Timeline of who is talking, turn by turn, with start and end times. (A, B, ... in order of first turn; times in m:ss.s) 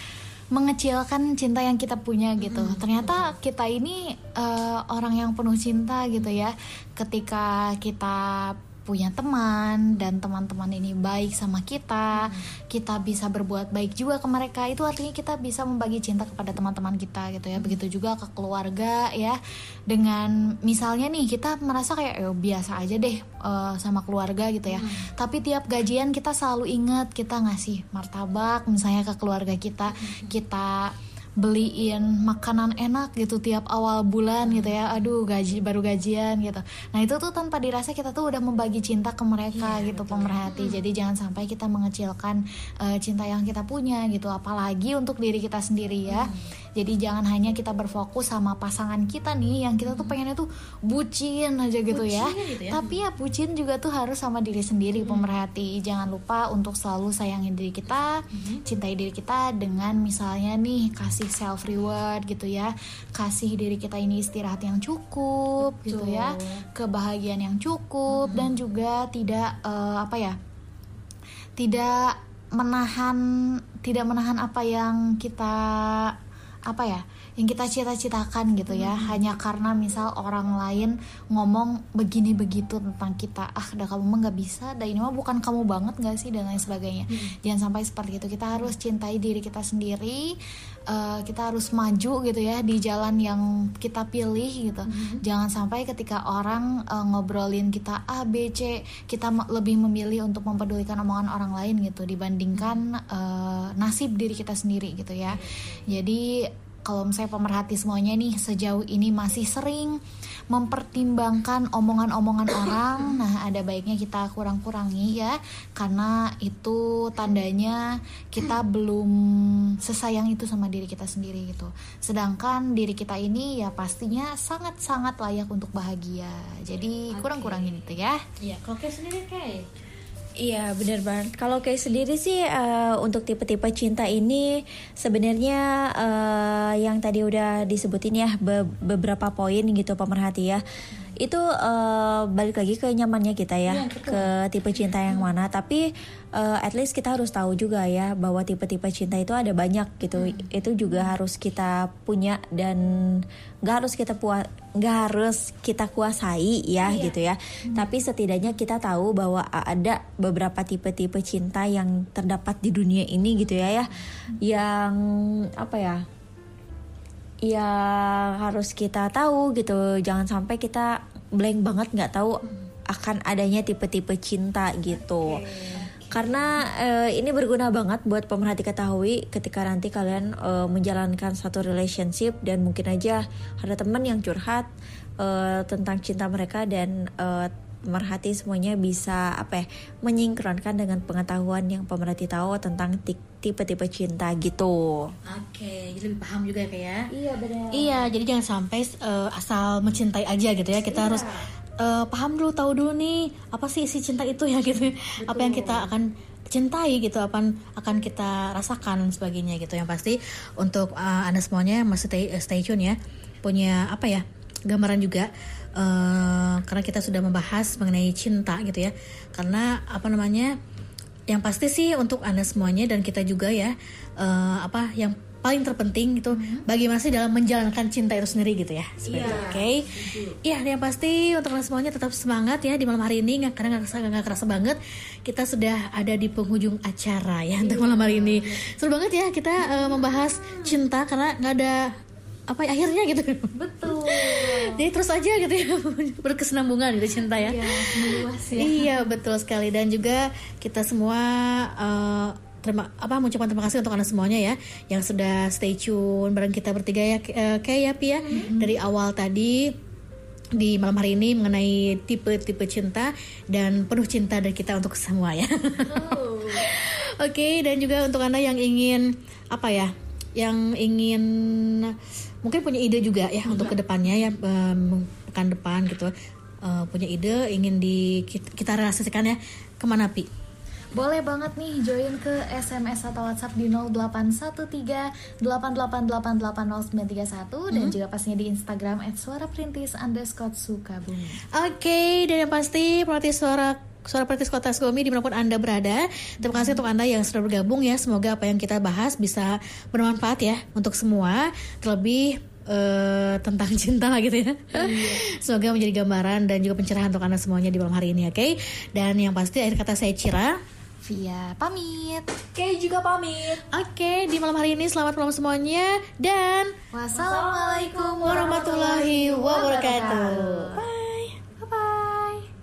0:00.5-1:10.4 A
0:02.4-0:03.3 B
0:12.2-0:12.5 B
0:24.7-0:25.1 B
0:29.9-0:30.4 B
0:34.4-0:35.0 B
0:39.5-0:40.8 B
0:46.1-0:46.5 B
0:49.8-0:50.1 B
0:51.9-0:53.0 B
0:55.0-0:55.4 B
0:58.3-0:58.6 B
1:06.1-1:06.4 B
1:08.1-1:08.6 B
1:11.6-1:16.1 A
1:16.7-1:30.4 A
1:18.7-1:19.2 B
1:30.9-2:08.2 A
1:34.9-1:35.2 B
1:42.5-1:42.8 B
1:45.3-1:45.9 B
2:07.1-2:07.8 B
2:08.4-2:09.7 B
2:10.4-2:20.6 C
2:21.2-2:46.0 C
2:23.7-2:24.3 B
2:30.2-2:30.5 B
2:36.8-2:37.1 A
2:47.4-3:04.7 C
2:55.7-2:56.5 B
3:05.2-3:15.1 C
3:15.2-3:17.1 B
3:17.1-3:18.1 C
3:17.7-3:40.5 B
3:20.9-3:21.4 C
3:25.2-3:25.9 C
3:41.3-4:01.9 B
3:46.3-3:46.6 A
3:49.0-3:50.4 C
3:49.2-3:49.7 A
3:57.6-3:58.6 A
3:59.6-4:00.8 A
4:02.5-4:19.8 B
4:03.5-4:04.8 A
4:07.2-4:09.1 A
4:18.3-4:18.8 A
4:20.5-4:40.3 B
4:25.9-4:26.6 A
4:40.9-4:51.4 A
4:47.7-4:48.0 B
4:51.5-5:10.6 B
4:56.4-4:56.8 A
5:04.9-5:05.1 C
5:11.0-5:12.3 A
5:12.5-5:13.6 C
5:13.6-5:16.7 B
5:16.9-5:20.8 A
5:17.1-5:18.9 C
5:18.2-5:20.8 B
5:19.6-5:21.1 C
5:21.6-5:22.4 A